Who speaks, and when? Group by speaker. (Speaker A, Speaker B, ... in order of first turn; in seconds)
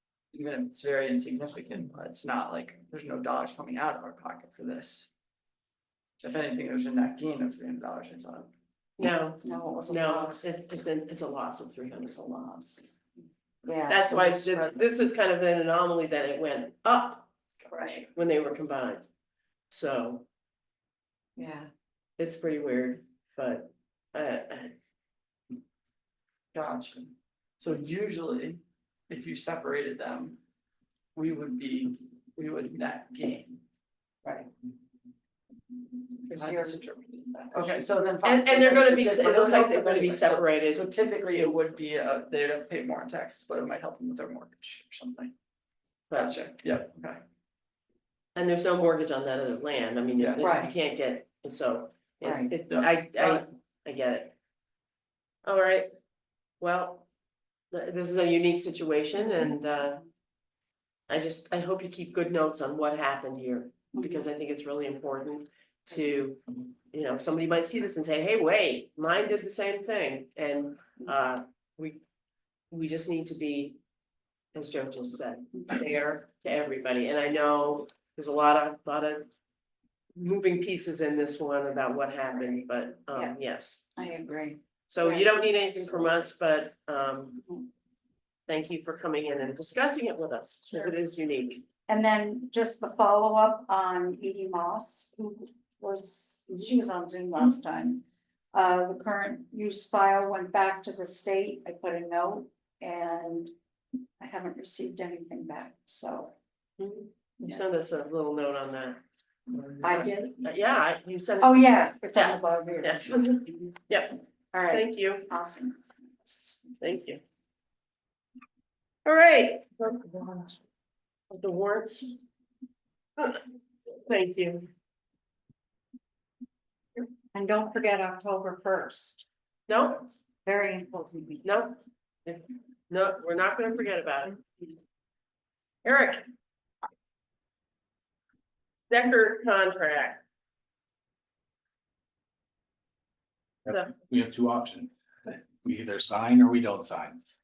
Speaker A: 0.3-5.1, 6.2-8.5, 26.5-30.4, 31.1-33.6, 36.3-45.3, 46.1-47.2, 50.1-50.7, 52.7-53.4
Speaker B: 9.0-12.5, 13.9-17.3, 18.1-19.1, 19.7-20.2, 22.2-24.7, 38.2-41.6, 46.1-46.4, 48.3-54.3, 55.4-55.9, 56.6-57.0, 57.7-60.0, 61.1-72.0, 72.7-73.8, 74.5-79.3, 80.1-83.9, 84.9-87.4, 88.5-91.6, 106.8-109.0, 109.5-115.2, 116.8-117.2, 119.0-120.4, 121.3-122.2, 123.2-123.4, 124.0-124.7, 129.7-130.1, 131.4-134.7, 135.8-136.2, 138.9-140.2
Speaker C: 9.4-10.6, 13.6-14.8, 17.7-18.1, 21.4-21.7, 36.2-37.8, 50.4-50.7, 52.2-52.5, 64.0-64.3, 82.3-83.3, 84.0-86.2, 91.9-98.0, 98.5-103.5, 104.2-106.3, 109.8-110.4, 111.4-113.8, 114.5-116.7, 127.3-129.3, 130.4-131.4
Speaker D: 143.7-147.2